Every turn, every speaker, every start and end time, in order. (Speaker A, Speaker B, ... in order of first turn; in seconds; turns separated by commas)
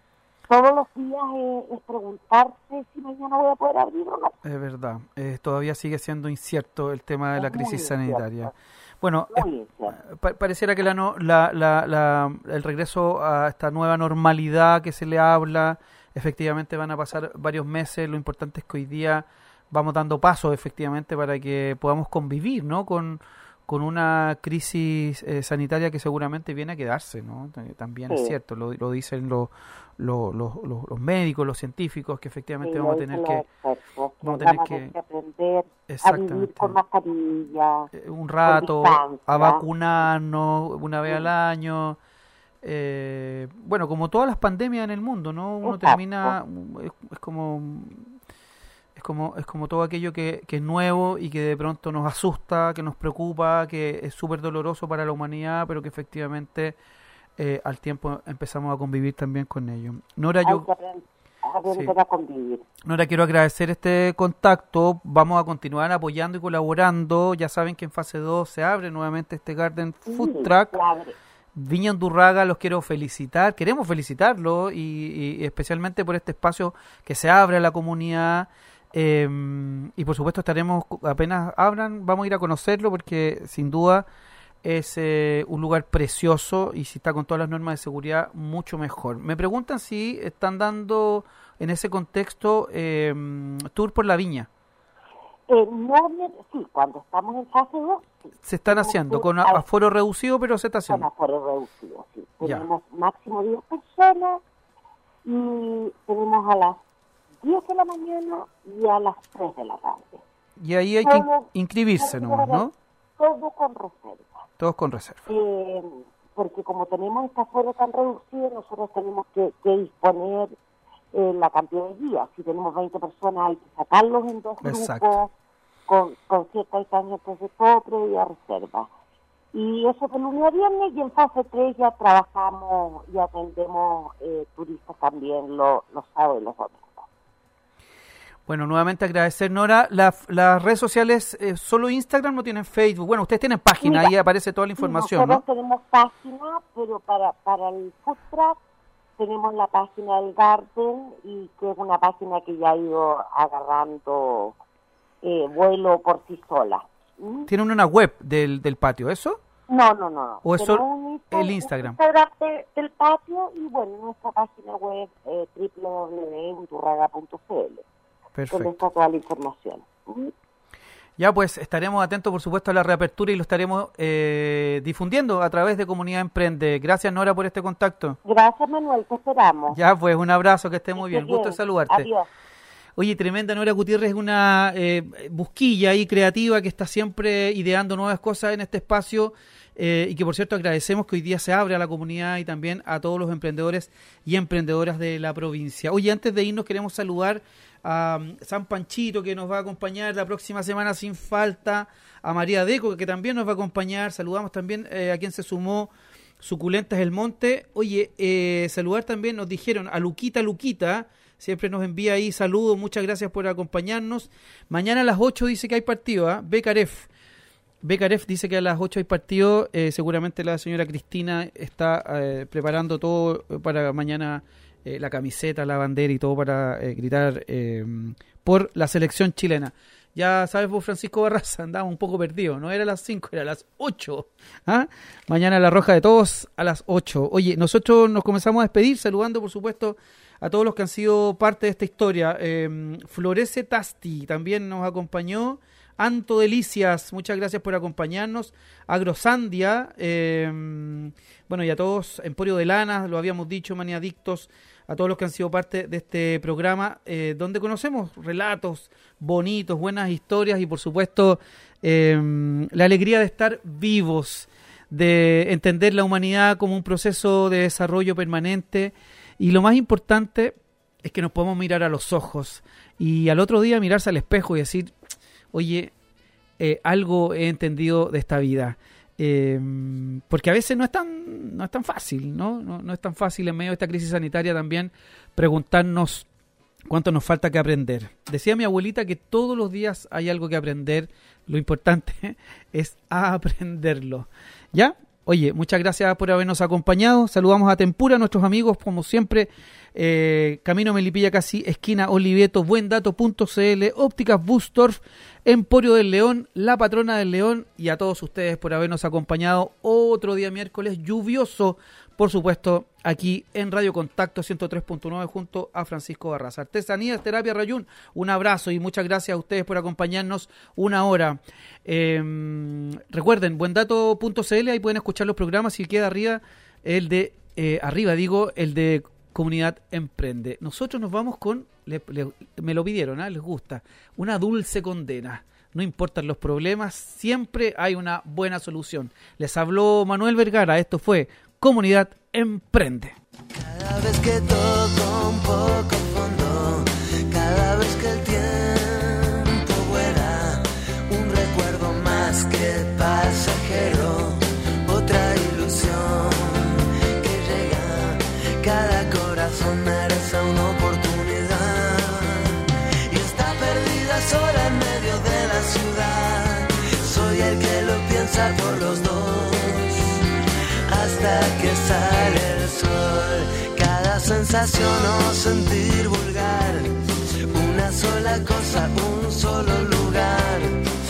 Speaker A: 0.5-4.3, Speaker B: 4.4-33.5, Speaker A: 7.4-8.5, Speaker A: 9.3-10.0, Speaker A: 28.1-28.3, Speaker A: 32.6-37.9, Speaker B: 34.2-34.9, Speaker B: 35.9-36.8, Speaker B: 37.9-42.0, Speaker A: 38.5-39.6, Speaker B: 42.6-48.1, Speaker A: 45.6-46.4, Speaker B: 49.0-56.8, Speaker B: 57.4-60.7, Speaker A: 60.4-62.7, Speaker B: 62.9-70.8, Speaker A: 70.1-71.2, Speaker B: 71.5-84.1, Speaker B: 84.6-94.5, Speaker A: 95.5-99.6, Speaker B: 98.5-101.1, Speaker A: 100.9-104.4, Speaker A: 105.2-106.8, Speaker A: 107.4-110.2, Speaker B: 110.6-112.7, Speaker A: 111.0-114.4, Speaker B: 114.6-115.3, Speaker A: 115.3-120.6, Speaker A: 121.1-125.3, Speaker B: 124.6-125.2, Speaker A: 125.9-128.9, Speaker A: 129.5-137.1, Speaker B: 138.5-145.4, Speaker A: 143.8-144.1, Speaker A: 144.8-148.6, Speaker A: 149.2-154.6, Speaker A: 155.2-157.5, Speaker B: 157.5-159.4, Speaker A: 159.7-167.8, Speaker B: 160.4-162.0, Speaker B: 168.3-168.8, Speaker A: 168.5-170.3, Speaker B: 171.2-178.2, Speaker A: 178.2-179.8, Speaker B: 179.7-182.1, Speaker A: 180.9-182.3, Speaker B: 183.0-217.1, Speaker B: 217.8-274.9, Speaker B: 275.5-275.9, Speaker B: 276.6-286.3, Speaker B: 286.9-343.2, Speaker C: 343.6-362.5, Speaker C: 363.1-370.0, Speaker C: 370.9-376.9, Speaker C: 377.5-380.7